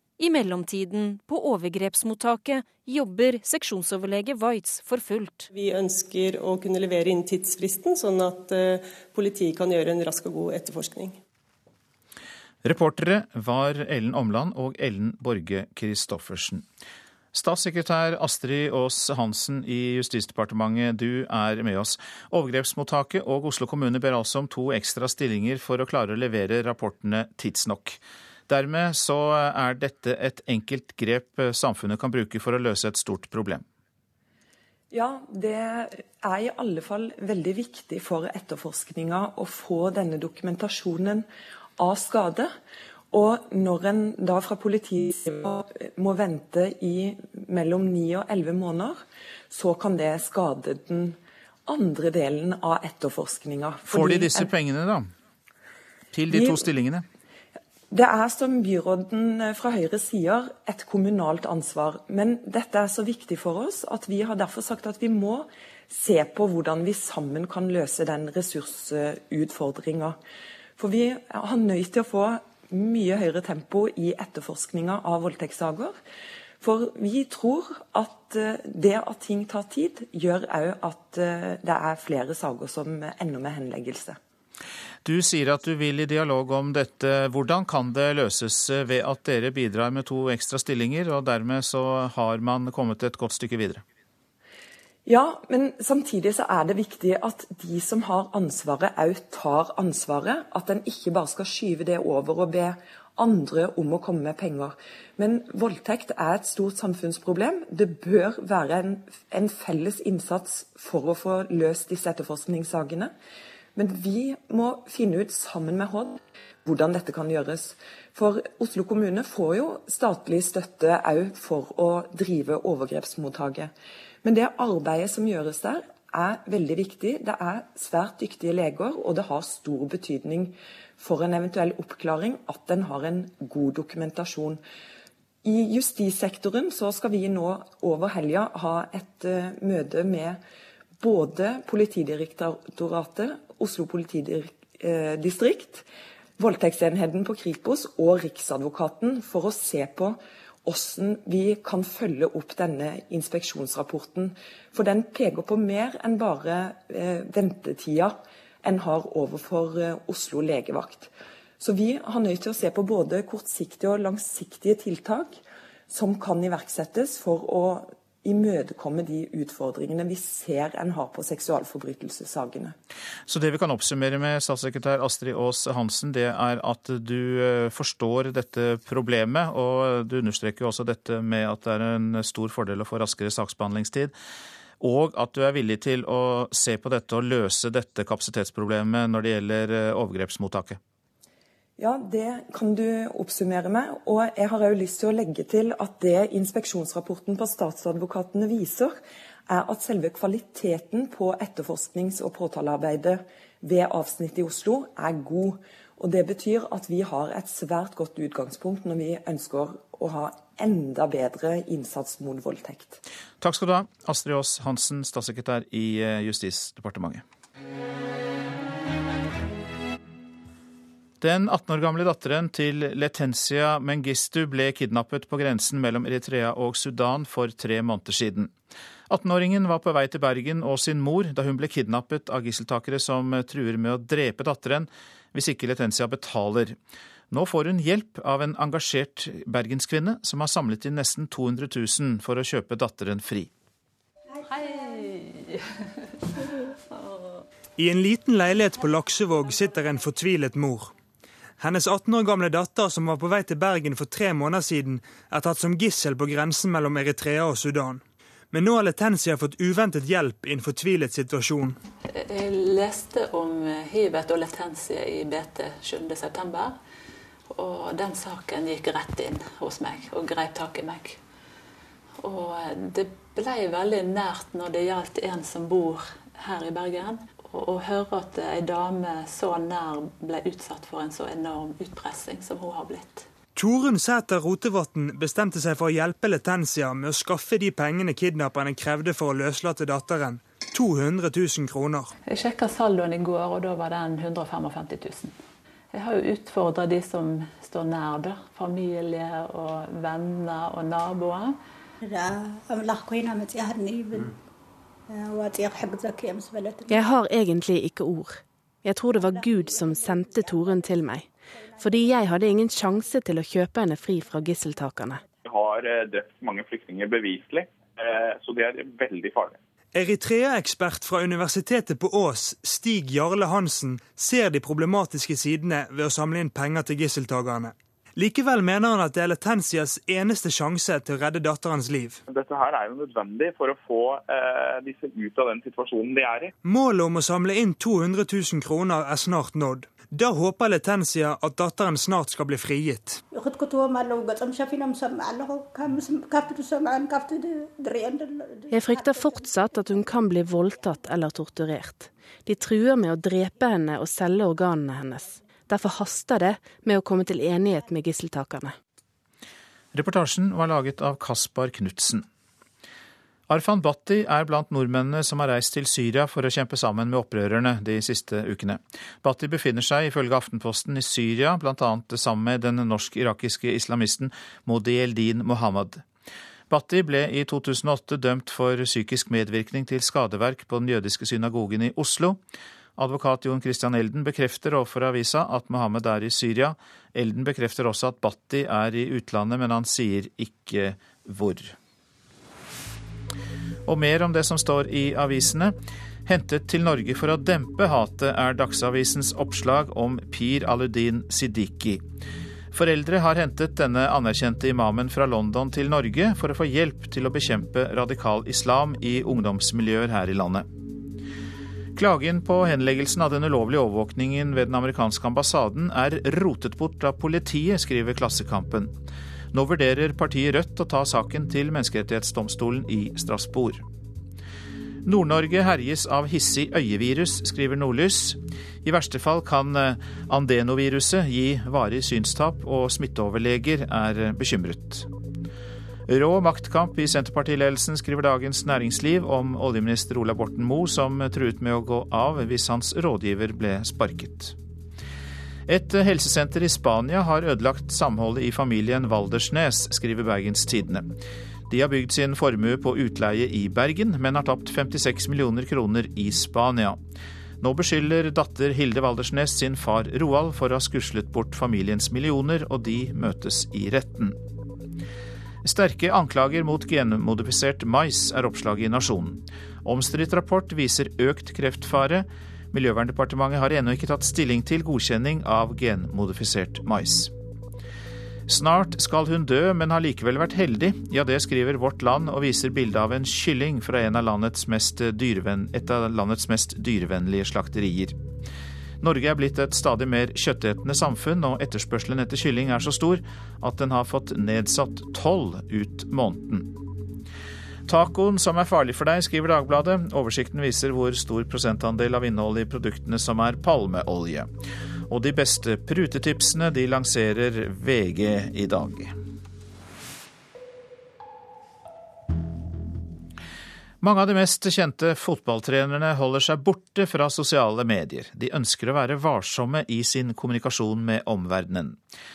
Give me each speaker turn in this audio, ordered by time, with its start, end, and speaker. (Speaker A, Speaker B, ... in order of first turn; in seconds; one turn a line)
Speaker A: 0.2-5.5
Speaker B: 5.5-11.2
Speaker C: 12.6-16.6
Speaker C: 17.3-33.6
Speaker D: 34.9-41.2
Speaker D: 41.8-42.5
Speaker D: 43.1-54.5
Speaker C: 53.9-55.1
Speaker C: 56.1-57.0
Speaker D: 56.3-56.6
Speaker D: 57.9-70.2
Speaker D: 70.8-75.9
Speaker D: 76.6-84.2
Speaker C: 85.0-93.8
Speaker D: 95.0-113.1
Speaker D: 113.7-123.7
Speaker D: 124.2-134.6
Speaker D: 135.4-140.4
Speaker D: 141.0-145.8
Speaker D: 146.4-165.4
Speaker D: 165.9-172.7
Speaker C: 173.3-184.1
Speaker C: 184.8-190.8
Speaker D: 191.8-198.9
Speaker D: 199.5-213.0
Speaker C: 213.4-217.2
Speaker C: 221.2-228.5
Speaker C: 229.1-236.8
Speaker C: 237.3-243.5
Speaker E: 244.4-245.6
Speaker F: 247.8-250.9
Speaker F: 251.6-261.8
Speaker E: 262.1-266.8
Speaker E: 267.5-271.2
Speaker E: 272.2-283.3
Speaker F: 283.6-292.1
Speaker E: 292.3-295.3
Speaker E: 295.9-301.6
Speaker G: 302.1-304.3
Speaker G: 305.1-307.0
Speaker G: 309.2-310.5
Speaker H: 315.5-319.6
Speaker F: 319.9-332.2
Speaker H: 332.3-336.5
Speaker F: 336.6-343.2
Speaker G: 343.3-349.6
Speaker C: 359.9-362.2
Speaker C: 363.5-376.0
Speaker C: 376.7-382.4
Speaker C: 383.0-391.7
Speaker C: 393.9-402.0
Speaker C: 402.7-410.7
Speaker C: 411.9-418.9
Speaker C: 419.5-423.8
Speaker C: 425.0-435.1
Speaker C: 436.1-444.6
Speaker C: 445.7-451.1
Speaker C: 451.7-457.0
Speaker C: 457.6-464.4
Speaker C: 465.6-477.3
Speaker C: 478.5-488.1
Speaker C: 489.0-496.7
Speaker C: 497.9-504.5
Speaker C: 505.1-509.1
Speaker C: 514.0-522.0